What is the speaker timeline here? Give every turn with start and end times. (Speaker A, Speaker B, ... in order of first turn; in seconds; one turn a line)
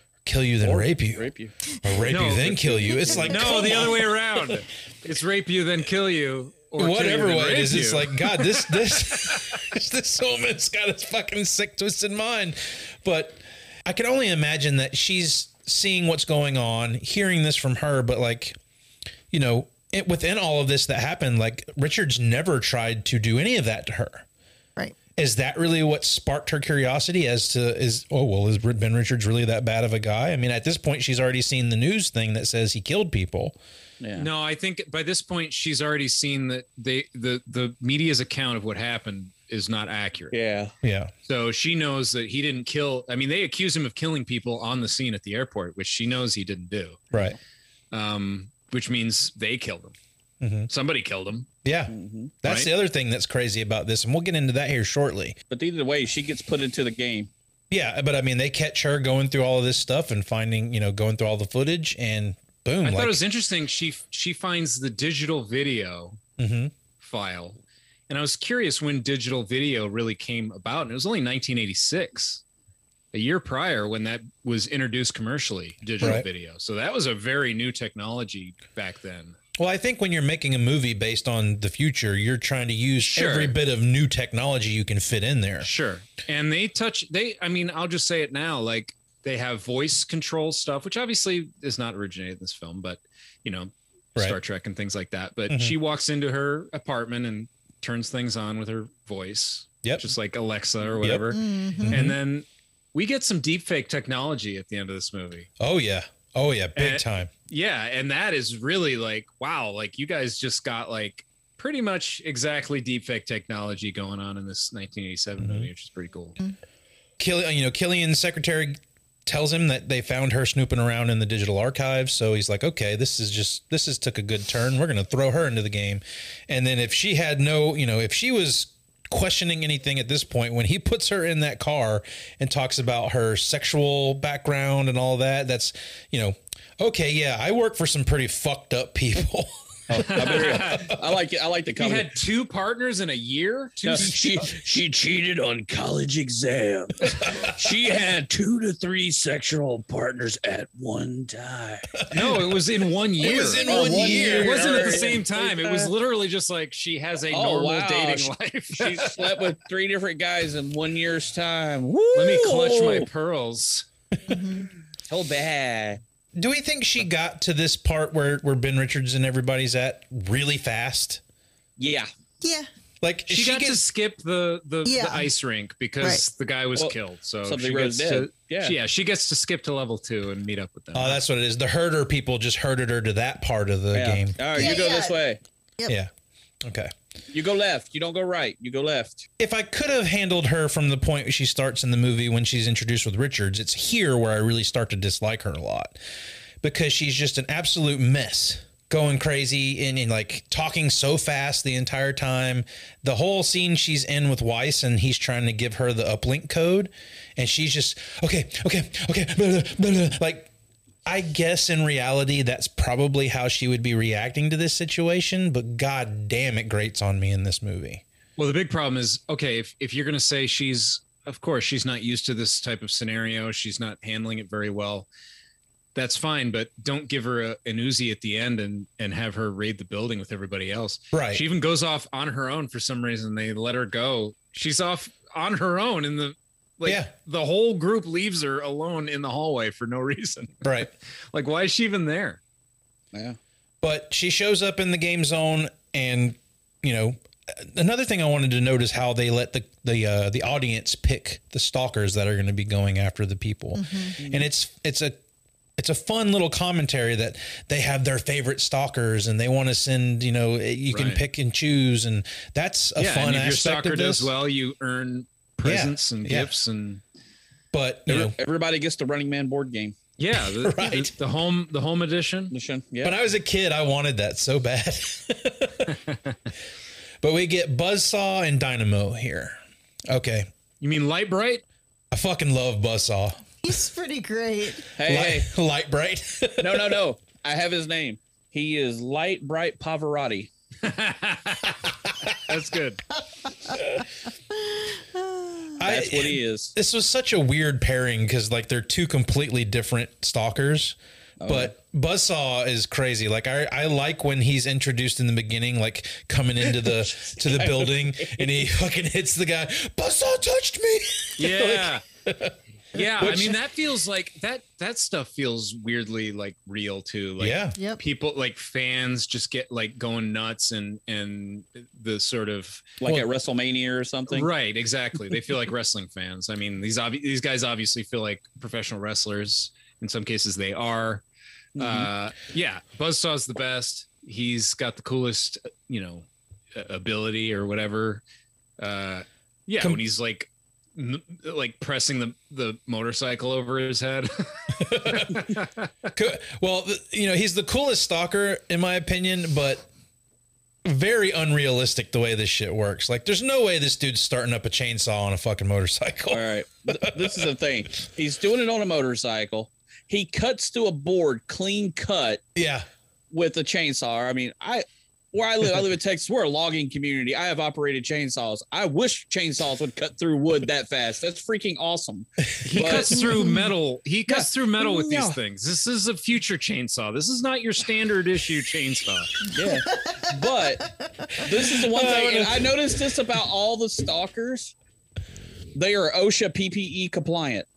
Speaker A: 0.2-1.3
Speaker B: 0.6-1.6
Speaker A: 1.8-4.6
Speaker C: 2.0-9.6
Speaker B: 3.0-3.4
Speaker A: 6.8-18.6
Speaker A: 19.3-24.2
Speaker A: 25.2-33.6
Speaker B: 34.0-34.3
Speaker C: 34.2-40.4
Speaker B: 40.3-40.7
Speaker A: 40.8-41.1
Speaker C: 41.2-47.0
Speaker A: 47.1-47.4
Speaker C: 47.9-50.0
Speaker A: 50.4-50.7
Speaker C: 50.7-51.5
Speaker A: 51.6-55.4
Speaker B: 51.9-52.3
Speaker B: 55.5-57.3
Speaker A: 57.7-63.2
Speaker C: 62.8-66.2
Speaker A: 66.4-66.7
Speaker C: 67.0-72.4
Speaker C: 73.1-79.4
Speaker A: 76.0-76.3
Speaker A: 79.6-85.7
Speaker C: 83.0-83.6
Speaker C: 85.6-105.5
Speaker A: 95.5-95.8
Speaker A: 99.8-100.2
Speaker A: 101.0-102.2
Speaker D: 101.3-101.9
Speaker A: 105.6-107.3
Speaker C: 106.8-116.4
Speaker A: 115.4-115.7
Speaker A: 117.2-141.1
Speaker B: 139.9-142.1
Speaker C: 139.9-140.9
Speaker C: 141.8-144.5
Speaker B: 143.8-152.1
Speaker A: 143.9-144.4
Speaker A: 152.1-152.5
Speaker C: 152.1-159.5
Speaker B: 153.2-155.9
Speaker A: 153.2-155.2
Speaker B: 157.3-163.1
Speaker C: 162.1-163.9
Speaker D: 164.3-164.7
Speaker B: 165.1-166.0
Speaker A: 166.4-171.2
Speaker B: 171.8-172.1
Speaker D: 172.4-172.7
Speaker A: 173.0-173.8
Speaker C: 173.3-181.2
Speaker D: 174.8-175.3
Speaker B: 176.8-178.8
Speaker A: 180.9-184.8
Speaker B: 183.9-185.4
Speaker D: 184.6-185.2
Speaker A: 186.6-186.9
Speaker B: 187.3-189.3
Speaker A: 189.4-196.0
Speaker A: 196.6-210.5
Speaker A: 211.1-218.0
Speaker C: 218.4-225.1
Speaker C: 225.9-242.4
Speaker A: 231.1-231.4
Speaker A: 236.9-237.1
Speaker A: 240.6-240.9
Speaker B: 243.1-243.4
Speaker A: 243.8-255.2
Speaker D: 253.8-254.2
Speaker B: 254.2-254.5
Speaker A: 255.8-264.3
Speaker C: 260.9-261.2
Speaker C: 263.0-267.0
Speaker A: 265.6-266.5
Speaker A: 267.7-268.4
Speaker B: 268.1-270.0
Speaker C: 270.2-272.5
Speaker A: 270.4-271.1
Speaker B: 272.5-273.2
Speaker A: 273.0-276.0
Speaker C: 276.1-276.3
Speaker A: 277.2-280.5
Speaker C: 280.8-281.6
Speaker A: 282.1-283.4
Speaker D: 283.6-284.9
Speaker B: 285.0-285.5
Speaker A: 285.0-287.0
Speaker B: 286.6-290.5
Speaker C: 290.8-291.8
Speaker C: 292.4-293.0
Speaker A: 295.8-313.6
Speaker B: 295.8-296.7
Speaker B: 301.4-301.7
Speaker B: 307.3-308.6
Speaker C: 311.4-312.0
Speaker C: 312.9-322.9
Speaker A: 317.4-317.8
Speaker D: 317.8-318.0
Speaker B: 323.0-324.5
Speaker C: 324.3-331.2
Speaker B: 331.8-332.1
Speaker C: 331.8-338.2
Speaker C: 338.8-346.1
Speaker A: 344.8-345.4
Speaker A: 346.1-349.9
Speaker A: 350.9-357.5
Speaker B: 356.3-362.4
Speaker A: 362.6-362.9
Speaker B: 363.3-373.5
Speaker C: 372.6-379.4
Speaker B: 374.3-375.4
Speaker B: 379.5-380.9
Speaker D: 379.9-380.4
Speaker D: 381.0-381.3
Speaker B: 381.4-384.8
Speaker A: 381.9-383.0
Speaker B: 385.8-387.7